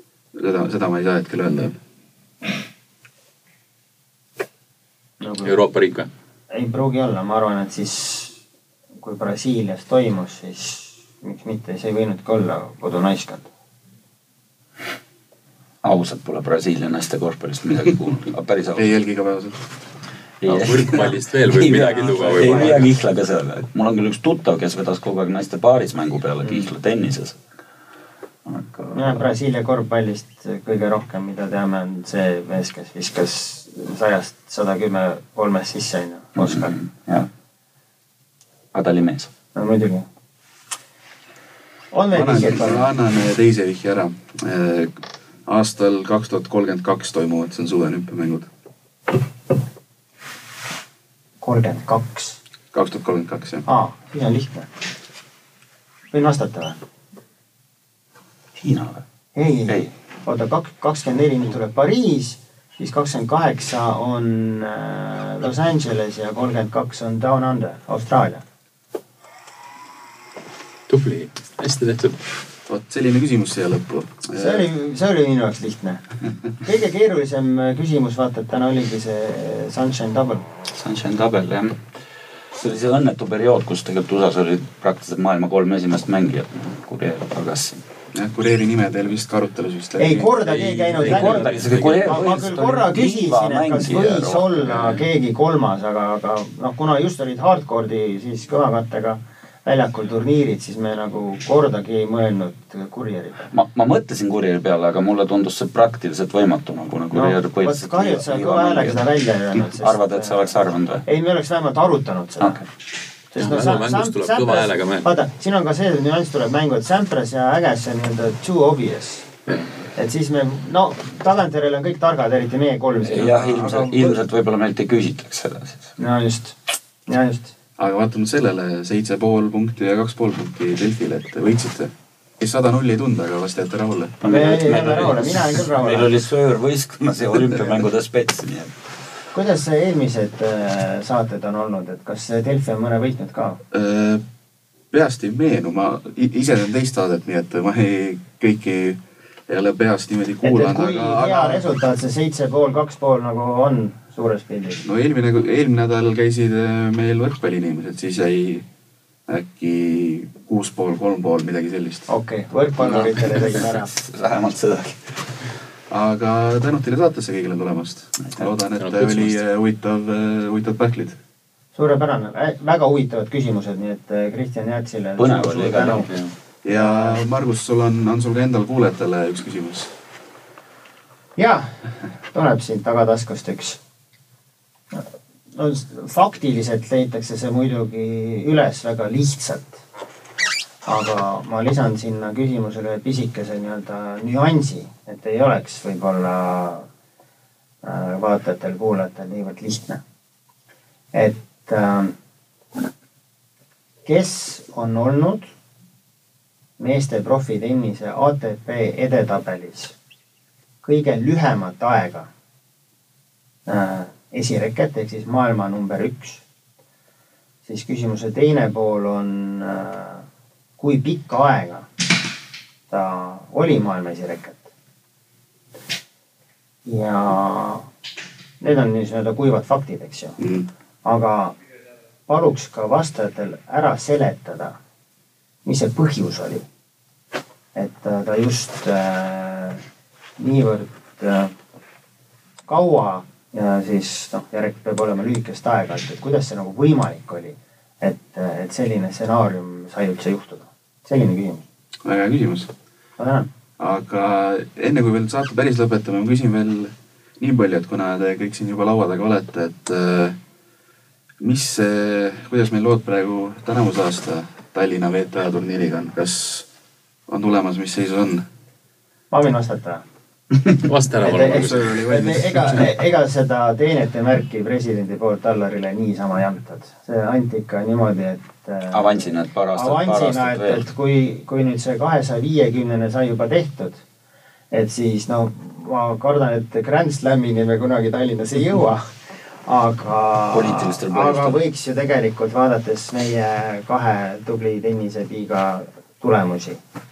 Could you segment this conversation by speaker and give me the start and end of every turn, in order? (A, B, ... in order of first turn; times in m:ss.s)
0:00.3-0:01.8 A
0:05.2-0:05.6 B
0:05.4-0:06.1 C
0:06.5-0:08.4 B
0:09.0-0:13.5 B
0:15.8-0:18.9 D
0:18.8-0:19.6 A
0:20.4-0:27.4 D
0:20.4-0:22.8 C
0:21.8-0:22.8 B
0:28.4-0:29.2 D
0:28.9-0:36.7 B
0:36.4-0:37.3 D
0:38.7-0:39.3 D
0:39.5-0:40.0 B
0:41.9-0:42.9 B
0:42.1-0:48.5 A
0:51.4-0:52.4 B
0:52.7-0:53.6 A
0:53.6-0:54.7 B
0:56.1-0:56.8 B
0:58.6-0:59.0 D
0:59.3-1:08.4 B
1:10.9-1:12.2 C
1:12.7-1:14.6 A
1:14.3-1:16.0 B
1:16.6-1:20.4 B
1:20.7-1:21.8 D
1:22.5-1:27.8 D
1:28.1-1:30.3 A
1:30.0-1:43.5 B
1:30.4-1:32.4 C
1:31.0-1:35.0 D
1:43.5-1:51.0 D
1:47.1-1:52.6 B
1:52.4-1:52.7 D
1:53.3-1:59.2 B
1:53.4-1:55.1 C
1:59.9-2:04.2 B
2:03.0-2:05.9 D
2:06.0-2:07.5 B
2:07.8-2:14.2 A
2:14.2-2:18.8 D
2:14.2-2:16.1 B
2:19.3-2:23.6 B
2:23.7-2:24.2 A
2:24.9-2:31.6 A
2:30.4-2:34.8 B
2:34.8-2:38.6 A
2:39.3-2:42.1 A
2:42.1-2:43.9 B
2:42.8-2:45.2 D
2:45.9-2:51.2 A
2:48.8-2:49.4 C
2:51.7-2:56.1 B
2:55.2-2:56.1 D
2:56.0-2:56.3 C
2:56.6-2:59.9 A
2:56.7-2:57.2 B
3:01.4-3:01.8 B
3:02.3-3:03.8 B
3:04.9-3:09.8 B
3:10.8-3:16.9 B
3:17.8-3:20.0 B
3:21.1-3:22.1 B
3:24.0-3:25.5 B
3:26.8-3:29.9 B
3:30.8-3:32.3 B
3:33.6-3:36.4 B
3:37.6-3:40.2 B
3:40.8-3:41.9 B
3:42.9-3:44.7 B
3:46.8-3:47.9 B
3:48.6-3:50.4 B
3:50.4-3:50.7 A
3:51.0-3:51.6 B
3:52.3-3:54.8 B
3:55.6-3:56.6 B
3:57.7-3:59.8 B
4:00.4-4:01.5 B
4:02.7-4:11.6 B
4:12.0-4:12.7 A
4:13.2-4:13.5 B
4:13.8-4:20.4 A
4:21.4-4:26.7 A
4:27.3-4:28.4 A
4:29.3-4:30.0 B
4:30.8-4:32.0 C
4:31.2-4:32.9 A
4:31.2-4:44.0 B
4:38.9-4:40.8 D
4:44.7-4:49.1 B
4:49.6-4:56.8 B
4:50.5-4:51.6 D